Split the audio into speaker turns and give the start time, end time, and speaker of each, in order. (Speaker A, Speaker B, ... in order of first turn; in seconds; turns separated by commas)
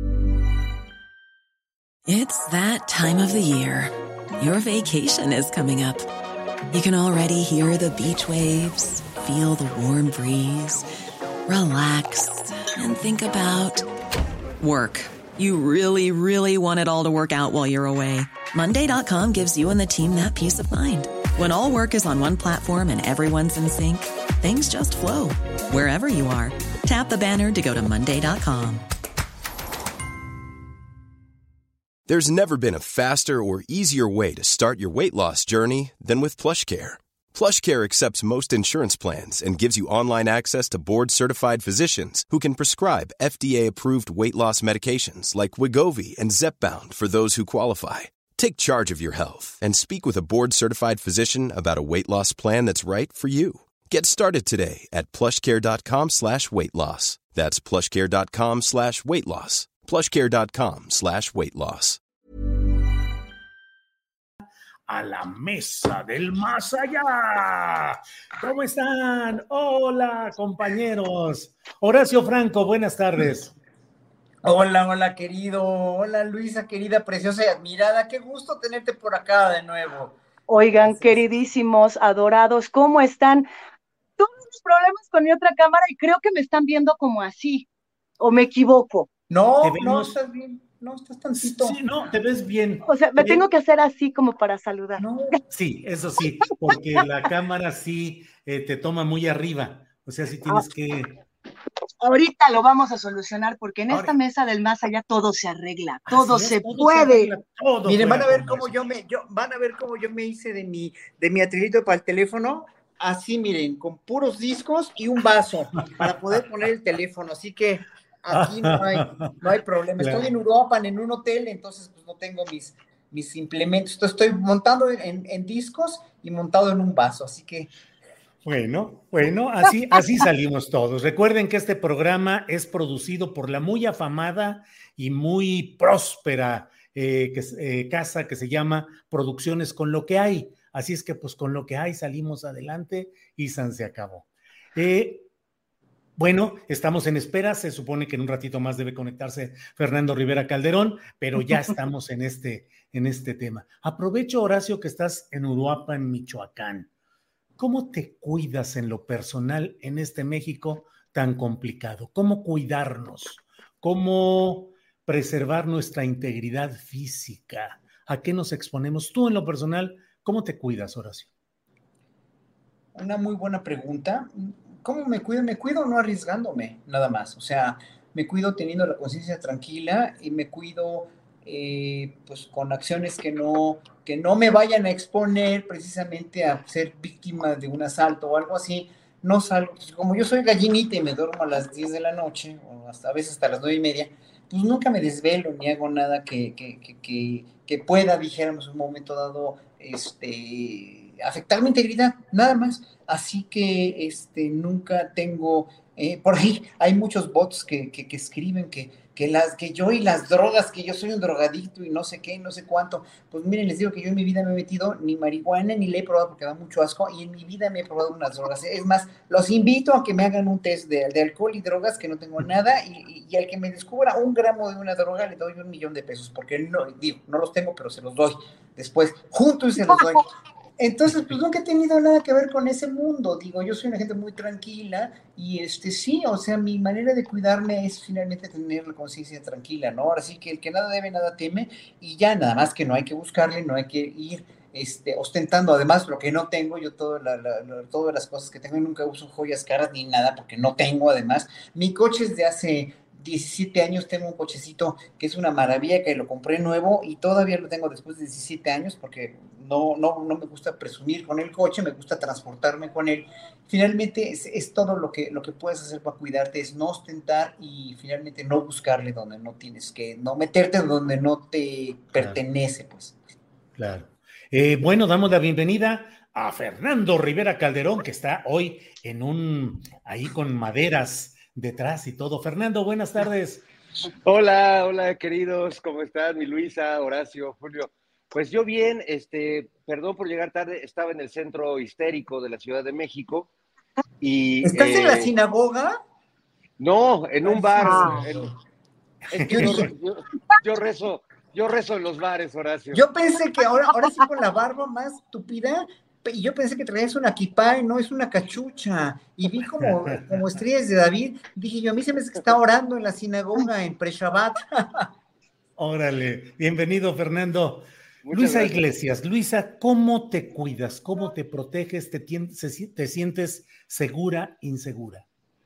Speaker A: 2.1-6.1, Speaker A: 6.7-10.8, Speaker A: 11.5-13.9, Speaker A: 14.6-28.8, Speaker B: 32.1-62.0, Speaker C: 64.9-73.5, Speaker D: 74.4-80.1, Speaker E: 80.5-83.5, Speaker D: 80.7-81.2, Speaker E: 84.2-87.7, Speaker E: 88.2-89.1, Speaker D: 89.3-91.8, Speaker C: 89.6-90.1, Speaker C: 91.4-93.4, Speaker E: 92.8-95.0, Speaker D: 95.0-95.4, Speaker C: 95.5-101.2, Speaker E: 102.0-107.3, Speaker C: 106.1-108.7, Speaker D: 107.8-127.7, Speaker C: 118.3-119.4, Speaker C: 120.0-120.2, Speaker C: 128.4-145.3, Speaker C: 146.2-156.9, Speaker C: 157.6-171.3, Speaker D: 172.9-230.2, Speaker D: 230.8-273.1, Speaker C: 273.8-283.6, Speaker F: 284.0-293.5, Speaker F: 294.2-295.3, Speaker D: 294.6-296.0, Speaker F: 296.8-298.5, Speaker D: 297.4-298.5, Speaker E: 297.9-298.2, Speaker F: 299.3-303.1, Speaker D: 299.3-299.9, Speaker D: 302.9-315.1, Speaker C: 309.8-310.4, Speaker C: 315.8-325.2, Speaker F: 318.2-318.8